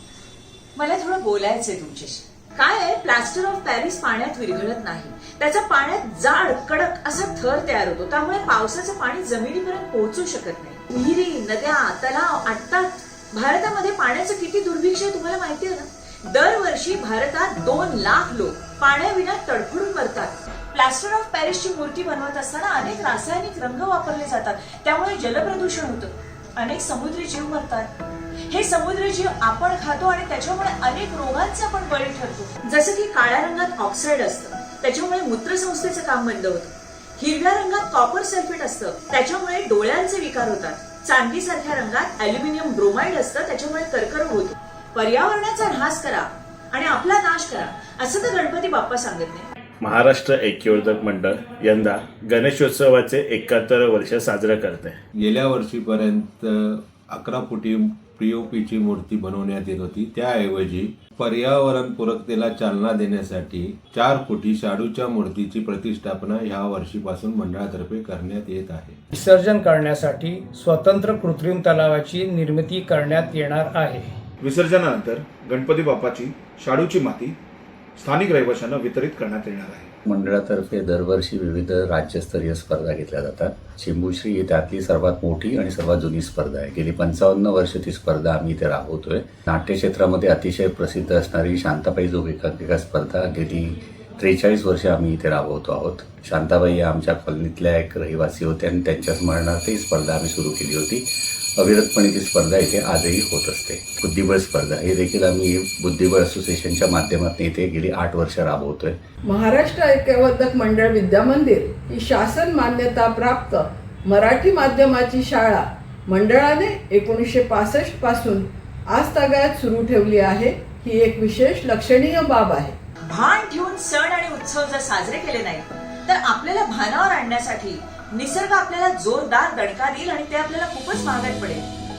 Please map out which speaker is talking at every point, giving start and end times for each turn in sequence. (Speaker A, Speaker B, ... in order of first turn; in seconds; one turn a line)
Speaker A: 0.8-27.9
Speaker A: 28.5-49.5
Speaker B: 49.8-55.0
Speaker C: 55.2-69.0
Speaker D: 69.1-74.1
Speaker E: 74.4-77.3
Speaker E: 78.0-79.9
Speaker F: 80.0-101.0
Speaker F: 101.6-109.0
Speaker G: 109.2-122.8
Speaker A: 123.1-131.7